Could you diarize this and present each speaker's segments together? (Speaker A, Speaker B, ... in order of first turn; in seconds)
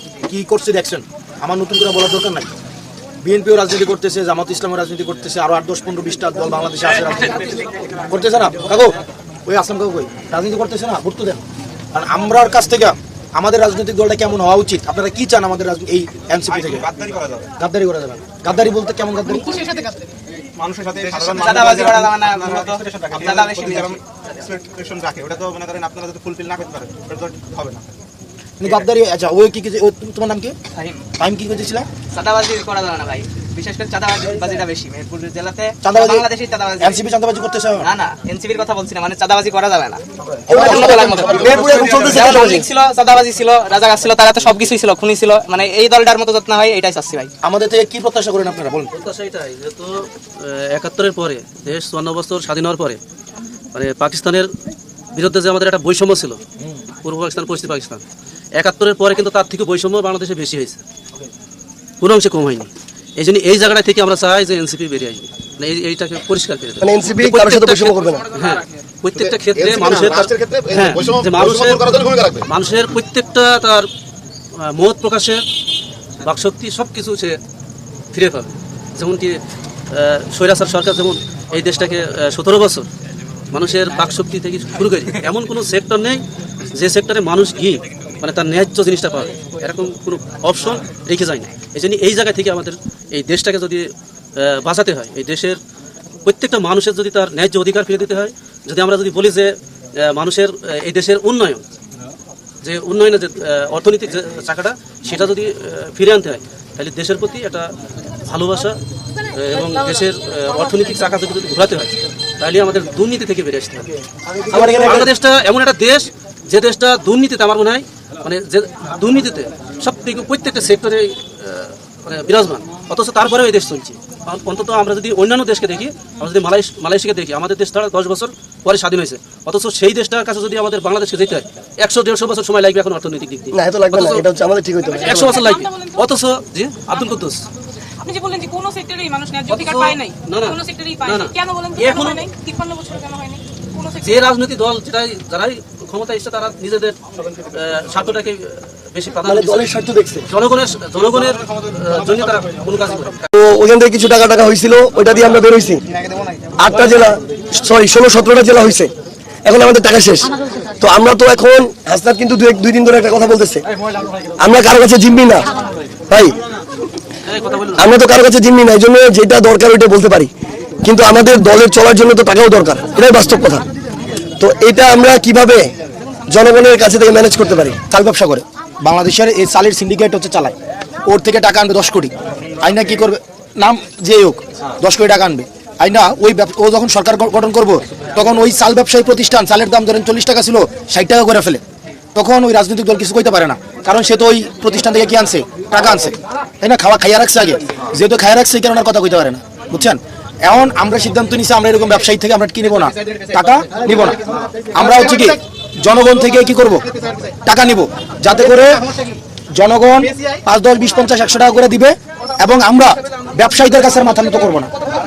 Speaker A: 0.3-2.5, 3.2-7.5, 8.1-8.9, 9.5-11.4, 11.9-16.9, 17.6-19.7, 28.6-30.6, 31.2-31.9, 35.8-36.3, 36.8-37.9, 47.4-48.9, 114.5-115.1, 177.9-191.6, 192.2-204.2, 204.7-206.8, 207.5-208.8, 209.6-214.7
Speaker B: 16.5-17.5, 20.6-27.9, 40.7-42.1, 69.2-72.5
Speaker C: 21.1-24.4, 30.7-31.0, 32.1-37.0, 37.8-47.3, 156.0-156.5
Speaker D: 40.5-42.7, 66.8-68.2, 114.3-115.1, 133.5-135.5, 149.2-150.3, 153.3-155.8, 156.6-158.9, 159.4-163.7, 164.4-165.5, 166.1-166.4, 167.8-170.3, 170.8-173.7, 174.4-175.7, 176.3-177.8
Speaker E: 48.9-53.0, 53.7-54.5, 55.1-56.4, 57.0-58.0, 58.6-60.8, 62.0-71.9, 72.5-73.9, 74.6-75.4, 76.2-77.4, 78.1-79.4, 79.9-82.9, 83.5-86.2, 86.8-95.6, 96.2-101.6, 102.6-107.7, 108.3-108.8, 109.3-113.9, 114.5-134.2, 135.0-137.5, 139.5-142.3, 144.0-149.7, 150.3-153.3, 167.3-167.9
Speaker F: 135.4-136.0, 138.0-144.2